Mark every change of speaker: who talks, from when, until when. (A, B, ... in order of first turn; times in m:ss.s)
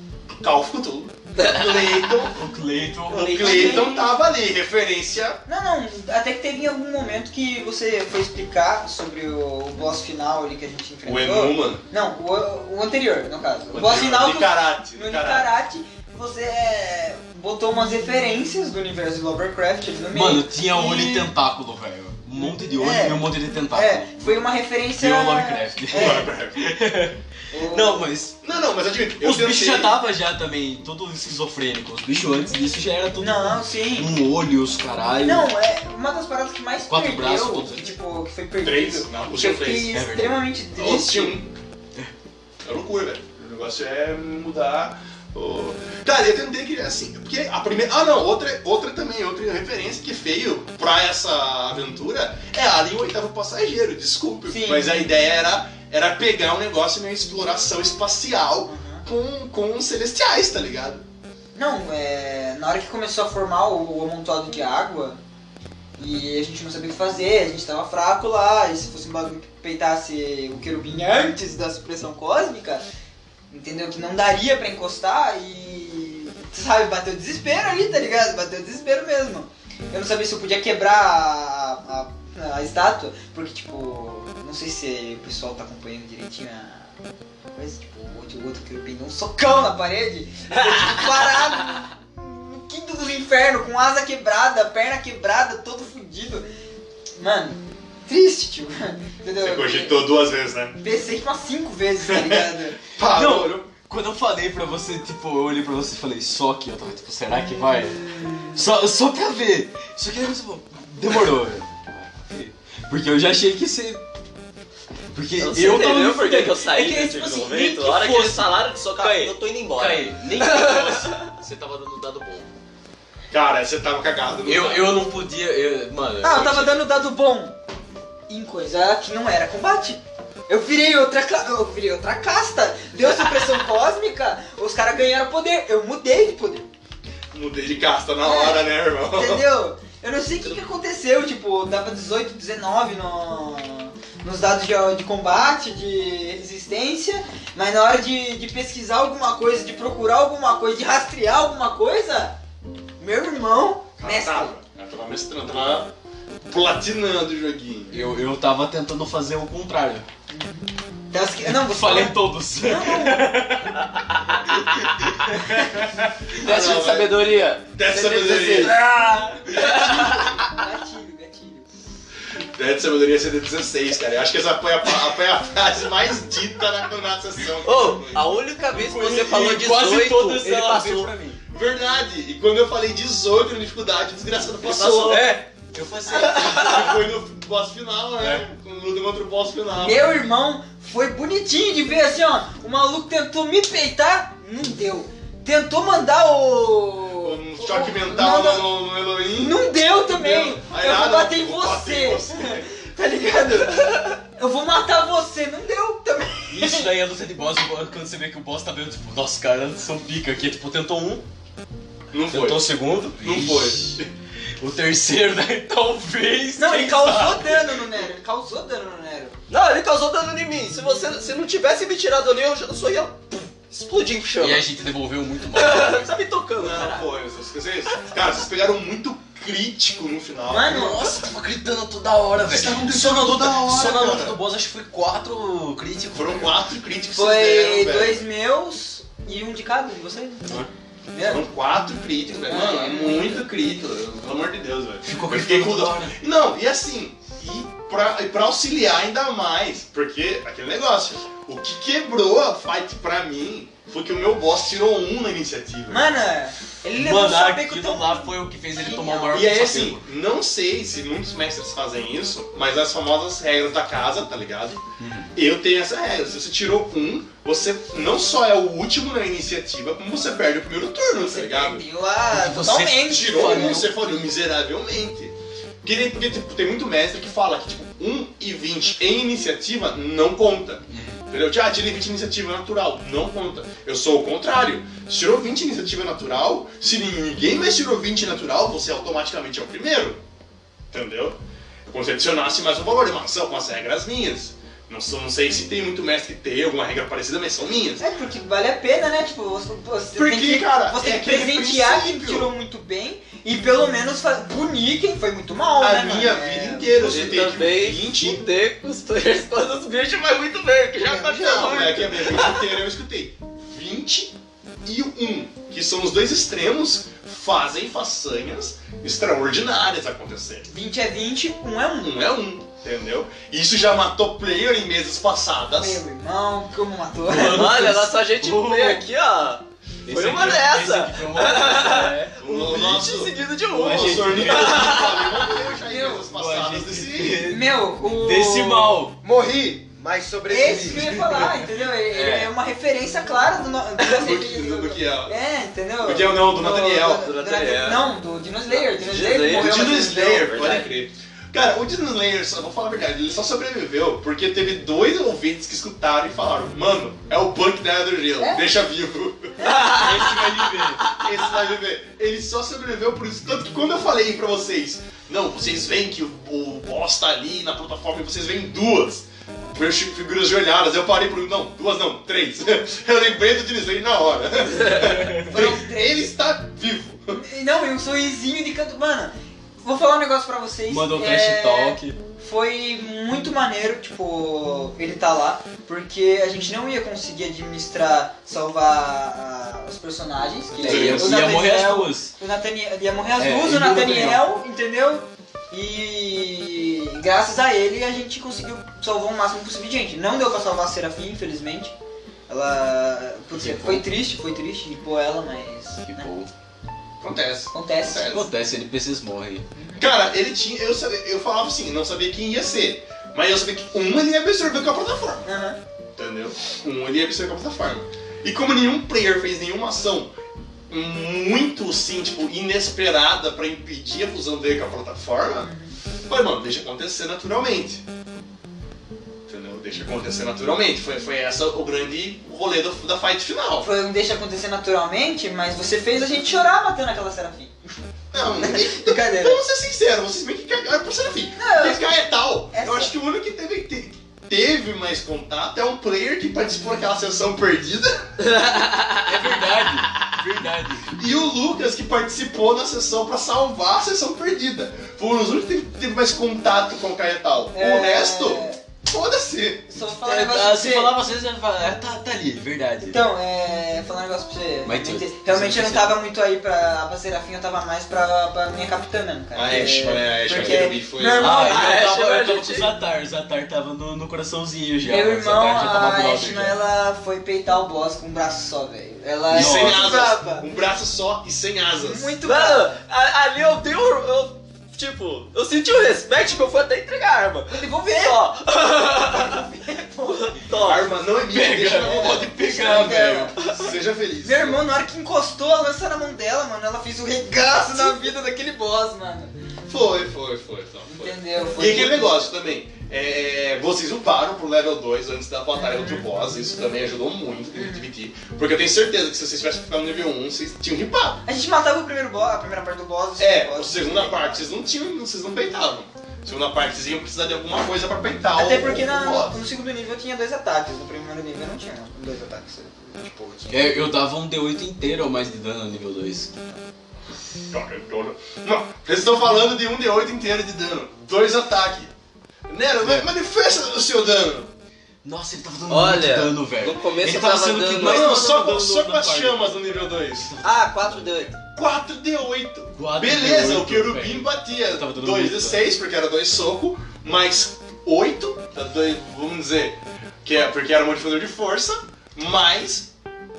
0:00.4-0:02.4 A
0:01.4-0:01.7 B
0:02.3-0:04.0 C
0:03.1-0:03.9 D
0:03.1-0:05.4 A
0:05.5-0:21.3 D
0:11.0-0:11.8 A
0:13.7-0:15.5 A
0:20.1-0:28.4 C
0:22.4-0:26.3 D
0:25.9-0:26.6 A
0:27.5-0:28.1 D
0:28.4-0:29.9 A
0:29.2-0:35.5 C
0:33.2-0:34.1 D
0:35.2-0:41.4 D
0:36.9-0:37.9 C
0:38.6-0:40.0 A
0:39.9-0:40.5 C
0:40.8-0:41.5 A
0:42.6-1:01.0 A
0:54.5-0:55.1 D
0:58.7-0:59.0 D
1:01.6-1:05.2 D
1:06.0-1:12.8 D
1:13.5-1:26.9 D
1:27.6-1:36.4 D
1:37.2-1:40.0 D
1:39.4-1:40.8 A
1:40.8-1:42.8 D
1:42.1-1:43.7 A
1:43.0-1:54.0 C
1:48.2-1:48.5 D
1:55.1-2:02.5 C
1:55.4-2:01.3 B
2:03.3-2:05.0 A
2:04.5-2:06.8 C
2:06.2-2:07.6 D
2:08.3-2:16.7 D
2:17.3-2:19.4 A
2:18.2-2:32.4 D
2:33.0-2:34.5 D
2:34.0-2:35.9 A
2:36.4-2:38.0 A
2:37.9-2:40.1 C
2:40.3-2:43.4 D
2:41.4-2:50.2 C
2:46.4-2:47.2 A
2:47.8-2:48.8 A
2:48.3-2:48.8 B
2:49.5-2:50.5 B
2:49.6-2:51.7 D
2:52.4-2:58.4 A
2:57.6-3:01.1 B
2:58.7-3:01.4 C
3:01.5-3:05.3 A
3:04.7-3:05.4 B
3:05.0-3:07.0 C
3:06.1-3:10.0 A
3:06.3-3:06.7 B
3:09.7-3:18.7 D
3:17.2-3:23.4 A
3:19.4-3:26.9 D
3:26.5-3:31.2 C
3:32.1-3:32.7 A
3:32.3-3:34.0 C
3:33.2-3:34.1 A
3:34.6-3:37.7 C
3:36.6-3:39.3 D
3:39.5-3:44.7 B
3:44.4-3:46.2 C
3:45.6-3:47.1 B
3:46.6-3:50.9 A
3:50.5-3:51.1 D
3:50.6-3:56.5 C
3:52.5-3:54.4 A
3:56.1-3:58.2 A
3:57.1-4:01.4 D
4:01.2-4:16.1 A
4:02.5-4:03.5 D
4:05.0-4:06.2 C
4:15.9-4:19.5 D
4:17.0-4:20.0 C
4:19.3-4:24.8 A
4:25.0-4:25.3 C
4:25.4-4:31.8 A
4:31.1-4:33.9 D
4:32.3-4:34.0 C
4:33.0-4:50.2 A
4:40.9-4:41.2 C
4:50.9-4:58.0 A
4:58.0-5:06.9 D
5:00.2-5:02.5 A
5:05.8-5:08.4 A
5:07.0-5:12.8 B
5:11.0-5:20.7 A
5:20.7-5:22.3 D
5:22.0-5:26.0 A
5:25.8-5:27.7 D
5:27.3-5:29.0 C
5:27.4-5:35.5 B
5:30.1-5:32.4 C
5:32.4-5:37.4 A
5:33.7-5:35.0 C
5:35.7-5:36.2 D
5:36.2-5:39.2 C
5:37.4-5:39.0 D
5:39.2-5:41.2 E
5:40.5-5:50.4 D
5:41.0-5:42.5 C
5:44.1-5:45.4 A
5:46.0-5:47.3 A
5:47.2-5:48.1 B
5:48.7-5:50.9 B
5:49.5-5:59.7 A
5:59.6-5:59.9 D
5:59.7-6:00.2 B
5:59.8-6:01.2 C
6:01.1-6:17.4 A
6:15.0-6:15.4 C
6:15.5-6:16.2 D
6:17.4-6:41.9 D
6:20.9-6:22.2 C
6:30.7-6:32.3 C
6:30.8-6:31.5 A
6:33.4-6:34.4 C
6:42.5-6:46.3 D
6:43.5-6:44.0 C
6:46.0-6:46.5 C
6:47.2-6:48.5 A
6:47.7-6:48.3 D
6:48.2-6:49.7 C
6:49.8-6:50.1 D
6:50.0-6:55.5 A
6:55.4-6:55.8 D
6:56.2-7:00.3 A
7:00.9-7:05.7 A
7:05.6-7:06.0 D
7:06.3-7:08.0 A
7:09.5-7:13.9 A
7:13.8-7:17.8 D
7:18.3-7:28.3 A
7:18.6-7:19.6 D
7:21.6-7:22.1 D
7:22.7-7:23.1 D
7:28.4-7:29.6 B
7:29.2-7:31.2 C
7:31.1-7:39.9 A
7:37.7-7:38.8 D
7:39.9-7:41.2 D
7:40.1-7:43.2 C
7:43.0-7:51.9 D
7:44.8-7:46.2 C
7:49.5-7:51.6 A
7:50.5-7:50.8 C
7:51.4-7:56.8 C
7:51.5-7:52.9 B
7:55.1-8:00.7 D
7:59.5-8:00.0 C
7:59.5-8:02.4 A
8:02.0-8:03.0 D
8:02.4-8:09.7 B
8:07.7-8:08.4 D
8:09.3-8:10.6 D
8:10.2-8:11.1 B
8:10.8-8:14.8 A
8:11.5-8:13.5 C
8:12.0-8:13.6 D
8:13.6-8:13.9 B
8:14.4-8:19.5 D
8:19.9-8:31.4 A
8:21.1-8:22.5 D
8:25.8-8:26.2 D
8:27.7-8:28.1 D
8:31.4-8:34.7 D
8:33.4-8:39.6 A
8:38.6-8:43.8 D
8:43.2-8:43.8 A
8:43.7-8:46.6 C
8:47.7-8:52.1 A
8:52.7-8:54.7 A
8:55.2-8:59.8 C
8:55.9-8:58.4 B
8:58.0-9:00.6 A
9:00.4-9:01.5 C
9:00.6-9:01.5 B
9:01.6-9:13.1 A
9:03.0-9:05.9 C